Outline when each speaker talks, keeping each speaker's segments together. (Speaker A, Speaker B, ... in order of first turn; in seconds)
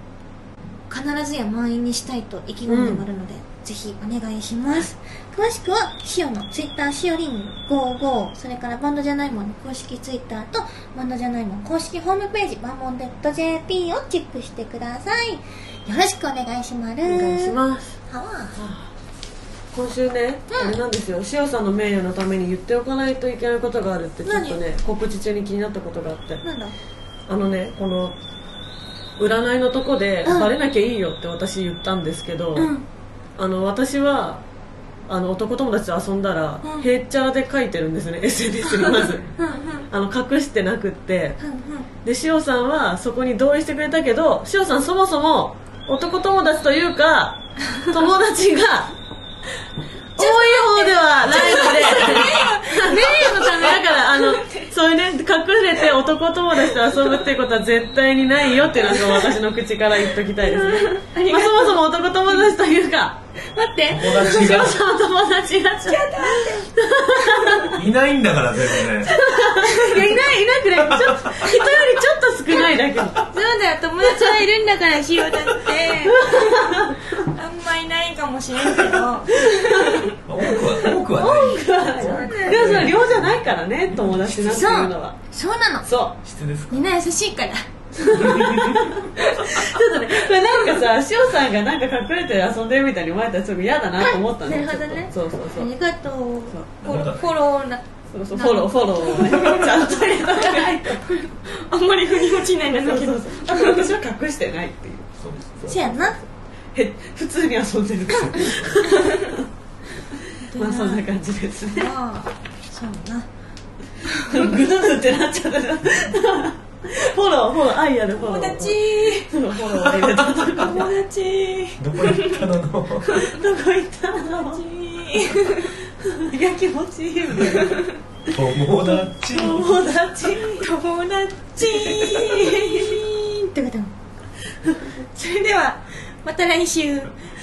Speaker A: 0.9-17.6, 18.1-18.6, 20.5-20.8, 24.2-24.6, 26.4-26.7, 30.2-30.5, 32.6-32.9, 38.7-39.9, 41.4-41.9, 50.2-54.7, 58.8-59.4, 60.4-62.5, 63.4-64.7, 65.8-67.7, 69.1-71.9, 72.5-80.1, 82.0-82.9, 84.5-85.9, 86.7-90.8, 94.0-103.9, 105.7-106.2, 108.4-109.2, 110.5-111.1, 111.7-113.3, 114.0-114.6, 118.2-119.3, 120.6-122.5, 124.4-125.7, 127.4-127.9, 130.2-133.9, 135.1-137.2
Speaker B: 2.7-3.0, 17.1-18.0, 18.6-18.9, 19.7-26.4, 27.3-28.2, 29.2-32.7, 33.4-34.4, 35.1-39.3, 39.9-41.4, 42.0-49.0, 50.2-63.2, 64.1-67.8, 69.1-73.3, 75.9-77.2, 79.5-80.1, 81.2-85.2, 85.8-86.2, 88.0-95.7, 96.5-97.0, 98.1-101.0, 102.6-109.4, 110.4-111.9, 114.3-120.9, 123.1-124.6, 126.2-127.8, 129.3-130.7, 131.7-133.0
Speaker C: 52.1-52.5, 63.9-64.8, 67.7-69.2, 70.8-71.3, 80.3-84.7, 86.2-86.8, 88.2-88.7, 96.8-97.3, 105.2-105.9, 108.3-108.8, 121.8-123.3, 128.3-129.8